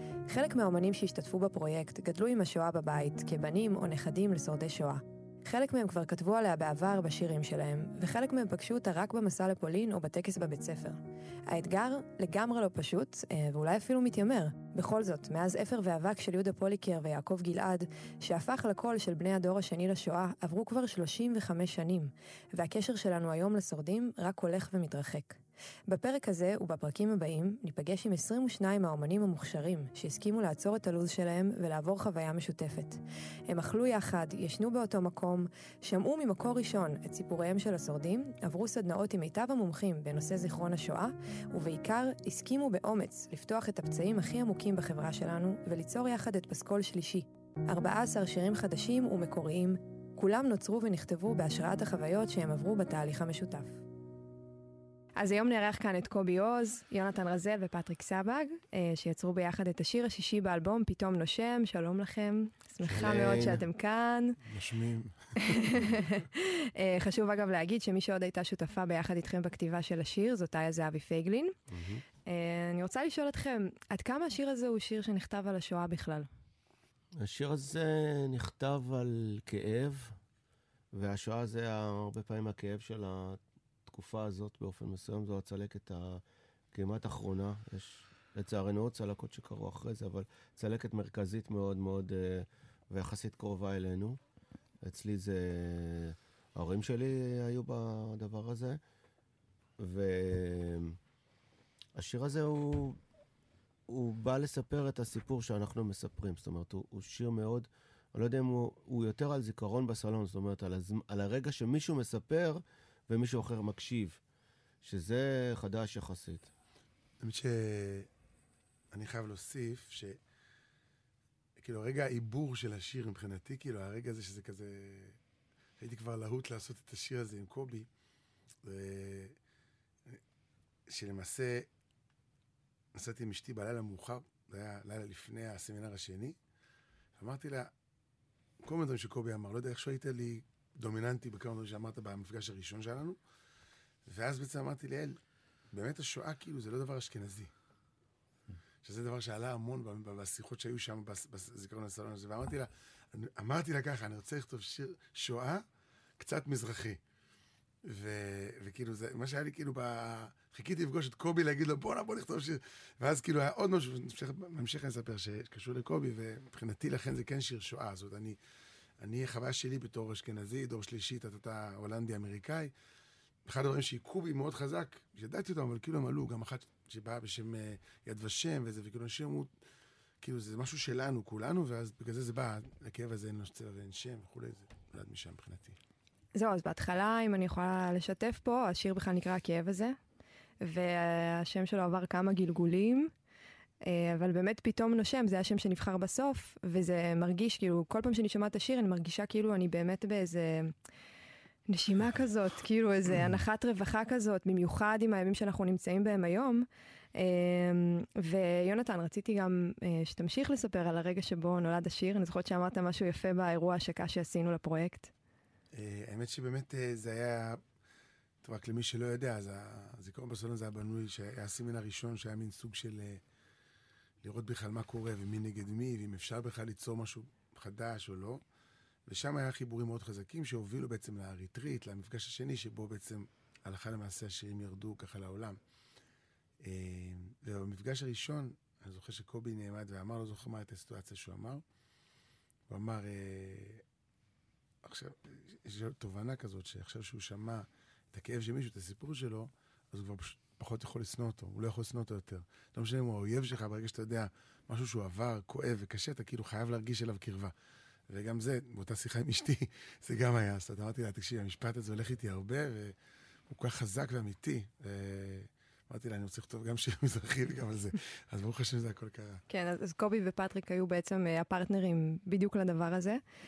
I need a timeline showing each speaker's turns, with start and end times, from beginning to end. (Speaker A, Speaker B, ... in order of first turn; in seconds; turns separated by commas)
Speaker A: 0.3-53.8, Speaker A: 55.2-64.4, Speaker B: 62.8-63.6, Speaker C: 64.4-65.9, Speaker A: 65.4-71.5, Speaker B: 71.7-72.0, Speaker A: 72.2-76.3, Speaker B: 77.2-80.2, Speaker B: 80.9-86.2, Speaker B: 86.7-94.2, Speaker B: 94.8-98.8, Speaker B: 99.8-101.0, Speaker B: 102.0-103.0, Speaker B: 103.9-114.2, Speaker B: 114.8-116.5, Speaker C: 117.2-118.1, Speaker C: 118.9-120.2, Speaker C: 121.6-125.2, Speaker C: 125.8-127.9, Speaker C: 128.6-129.3, Speaker C: 130.9-131.7, Speaker C: 132.9-136.4, Speaker C: 137.2-137.7, Speaker C: 138.6-143.2, Speaker C: 144.1-145.2, Speaker C: 145.7-147.5, Speaker C: 148.8-155.6, Speaker C: 156.2-157.0, Speaker C: 157.8-168.4, Speaker C: 169.0-172.7, Speaker C: 173.4-179.5, Speaker C: 180.2-185.8, Speaker A: 186.3-189.9, Speaker A: 190.6-193.1, Speaker A: 193.8-200.7, Speaker A: 201.7-215.1, Speaker C: 215.7-217.6, Speaker C: 218.4-223.2, Speaker C: 224.2-228.4, Speaker C: 229.1-235.6, Speaker C: 236.6-241.6, Speaker C: 242.7-243.8, Speaker C: 244.8-257.5, Speaker C: 258.1-262.9, Speaker C: 263.5-269.4, Speaker A: 269.5-273.2